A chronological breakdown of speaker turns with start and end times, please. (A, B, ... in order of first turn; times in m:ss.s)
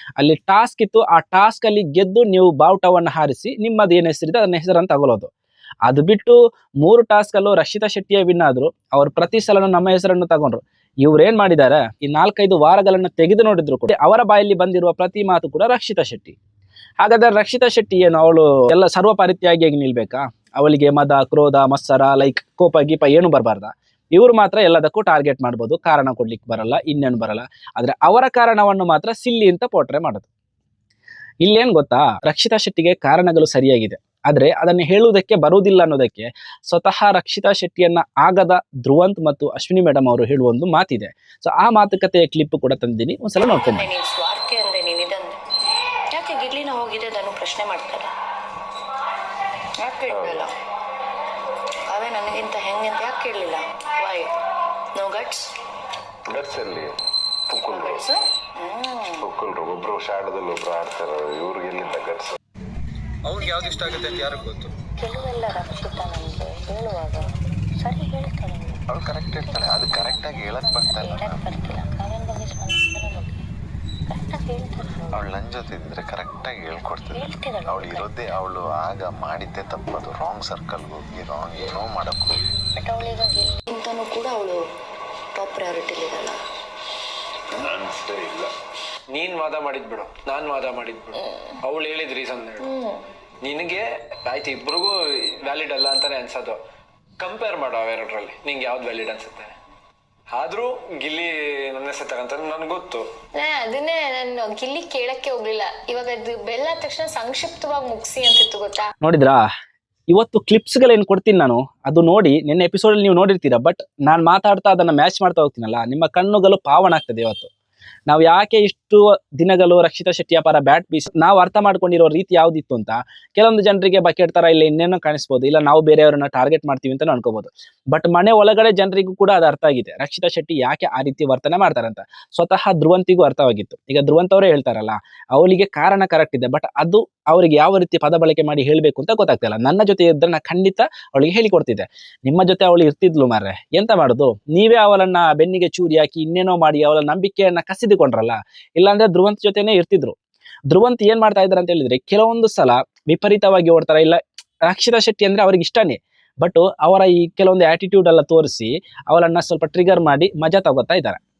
0:00.2-0:05.3 A
0:05.8-0:16.4 A
0:17.0-0:30.3 A
0:31.4-0:43.9 A
0:43.4-0:45.4 B
0:46.1-0:48.1 B
0:49.8-0:50.5 B
0:50.1-0:50.4 C
0:51.9-0:54.3 B
0:54.9-0:55.5 B
0:56.3-0:57.0 C
0:57.5-0:58.1 C
0:57.6-0:59.3 B
0:59.2-1:02.4 C
1:03.3-1:04.7 A
1:05.0-1:13.4 B
1:08.9-1:11.5 C
1:14.1-1:15.2 B
1:15.1-1:22.4 C
1:17.1-1:18.1 B
1:22.8-1:24.6 B
1:25.3-1:26.4 B
1:27.6-1:28.5 C
1:29.2-1:32.7 D
1:32.6-1:33.0 B
1:33.4-1:36.6 D
1:37.2-1:39.5 D
1:40.3-1:43.0 D
1:43.4-1:48.9 E
1:49.0-1:49.4 A
1:50.1-1:57.5 A
1:58.1-2:30.2 A
2:30.7-2:41.2 A